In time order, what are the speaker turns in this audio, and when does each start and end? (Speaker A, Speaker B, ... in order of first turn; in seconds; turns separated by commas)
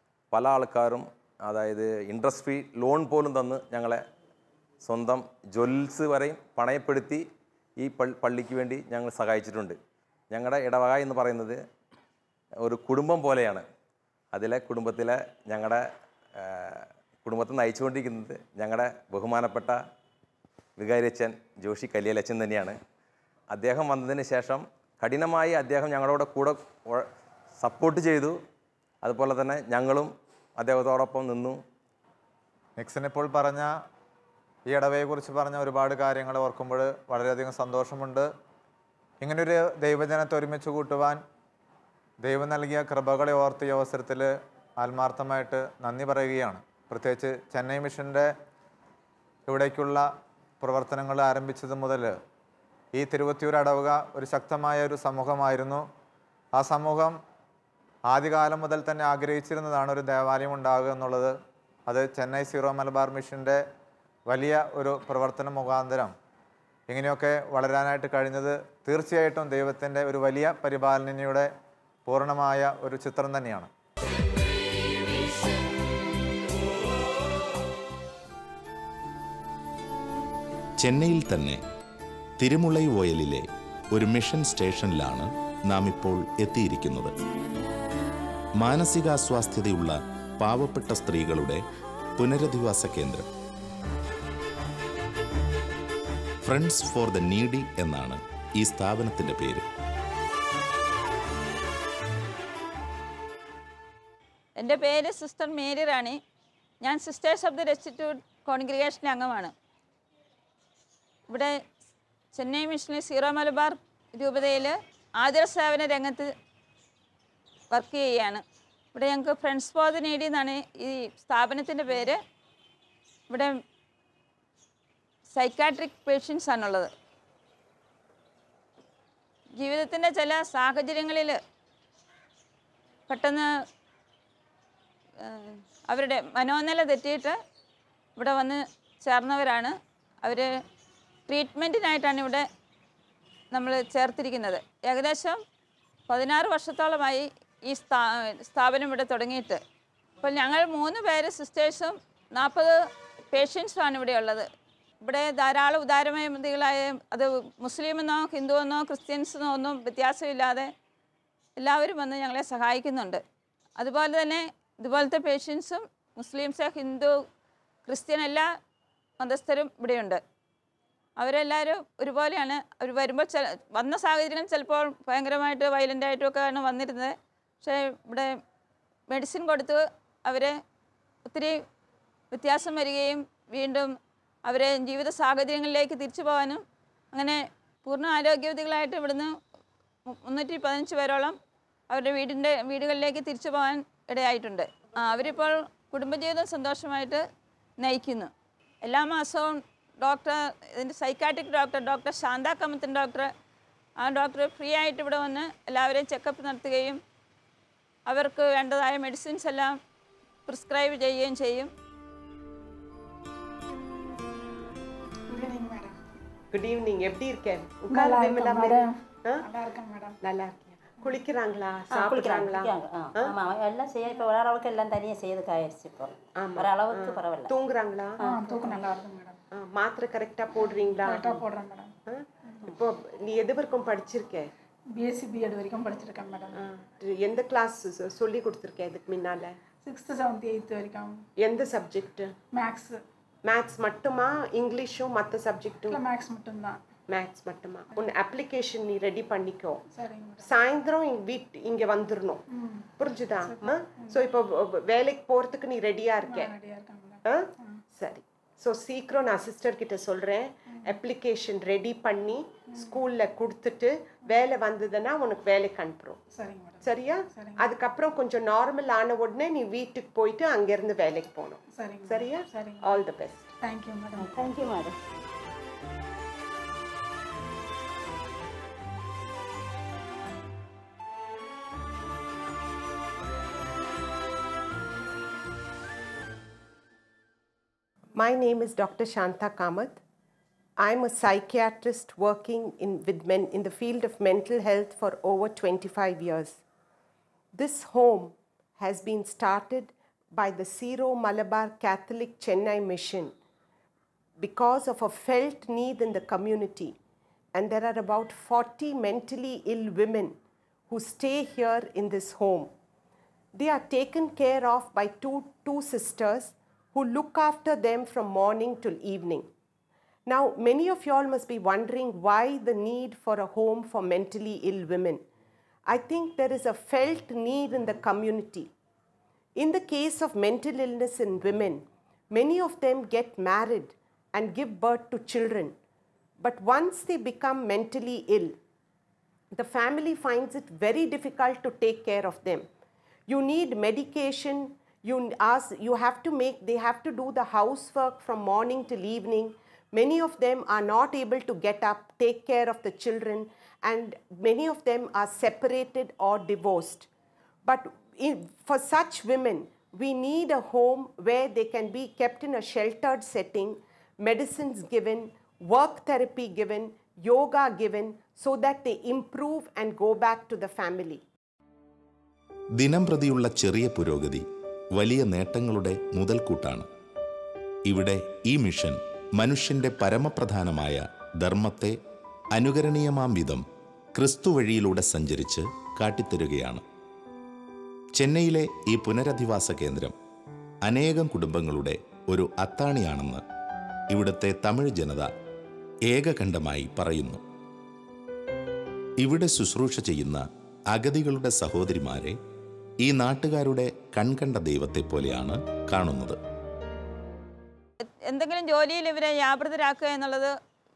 Speaker A: 0.3-4.0, Speaker A: 4.8-7.2, Speaker A: 7.8-9.8, Speaker A: 10.3-11.6, Speaker A: 12.6-13.6, Speaker A: 14.3-19.8, Speaker A: 20.8-22.8, Speaker A: 23.5-27.1, Speaker A: 27.6-28.4, Speaker A: 29.0-31.6, Speaker B: 32.8-33.7, Speaker B: 34.7-38.3, Speaker B: 39.2-41.2, Speaker B: 42.2-48.3, Speaker B: 49.5-50.1, Speaker B: 50.6-52.2, Speaker B: 52.9-55.9, Speaker B: 56.6-57.2, Speaker B: 58.1-61.4, Speaker B: 61.9-63.6, Speaker B: 64.3-66.1, Speaker B: 66.9-71.5, Speaker B: 72.1-73.7, Speaker C: 80.8-81.6, Speaker C: 82.4-87.1, Speaker C: 88.6-91.6, Speaker C: 92.2-93.3, Speaker C: 96.5-99.7, Speaker D: 104.6-106.2, Speaker D: 106.8-109.5, Speaker D: 111.3-111.5, Speaker D: 112.3-116.3, Speaker D: 117.7-118.4, Speaker D: 118.9-122.2, Speaker D: 125.3-126.9, Speaker D: 129.6-131.4, Speaker D: 133.1-133.5, Speaker D: 135.2-137.4, Speaker D: 138.2-140.5, Speaker D: 141.3-142.5, Speaker D: 143.5-145.4, Speaker D: 146.1-149.6, Speaker D: 150.2-152.8, Speaker D: 153.3-154.5, Speaker D: 155.0-160.7, Speaker D: 161.6-163.2, Speaker D: 163.8-167.2, Speaker D: 167.9-168.5, Speaker D: 169.2-170.2, Speaker D: 171.2-178.3, Speaker D: 179.1-180.6, Speaker D: 181.3-181.6, Speaker D: 182.3-183.9, Speaker D: 184.5-189.3, Speaker D: 190.1-191.4, Speaker D: 191.9-197.2, Speaker D: 197.8-198.3, Speaker D: 198.8-203.3, Speaker D: 204.0-207.0, Speaker D: 208.1-209.8, Speaker D: 210.5-211.7, Speaker E: 215.3-216.0, Speaker F: 216.5-219.4, Speaker E: 217.9-220.2, Speaker F: 220.2-223.3, Speaker G: 221.9-227.5, Speaker F: 226.4-228.7, Speaker E: 228.2-229.4, Speaker F: 229.5-231.4, Speaker E: 230.6-231.9, Speaker F: 232.1-234.5, Speaker E: 235.0-236.6, Speaker F: 236.6-239.6, Speaker E: 239.8-241.2, Speaker F: 241.4-242.3, Speaker E: 242.6-243.0, Speaker F: 243.4-246.0, Speaker E: 245.9-246.8, Speaker F: 247.1-249.8, Speaker E: 249.9-250.5, Speaker F: 250.4-252.4, Speaker E: 252.5-252.9, Speaker F: 253.0-256.5, Speaker E: 253.4-254.3, Speaker E: 256.2-257.8, Speaker F: 257.3-266.2, Speaker E: 262.7-263.0, Speaker E: 266.3-267.7, Speaker F: 266.8-273.5, Speaker E: 271.7-272.9, Speaker E: 273.6-274.3, Speaker G: 274.2-274.9, Speaker F: 288.2-290.0, Speaker F: 290.8-296.6, Speaker F: 297.5-303.3, Speaker F: 304.4-306.9, Speaker F: 307.5-310.4, Speaker F: 310.9-312.7, Speaker F: 313.6-319.5, Speaker F: 320.3-325.2, Speaker F: 325.9-328.7, Speaker F: 329.6-335.7, Speaker F: 336.4-338.6, Speaker F: 339.5-342.7, Speaker F: 343.3-357.1, Speaker F: 357.6-371.2, Speaker C: 372.8-376.9, Speaker C: 377.9-382.0, Speaker C: 382.5-386.8, Speaker C: 388.1-390.2, Speaker C: 390.9-393.4, Speaker C: 394.1-395.3, Speaker C: 396.1-397.4, Speaker C: 399.2-402.4, Speaker C: 403.0-406.4, Speaker D: 408.1-410.6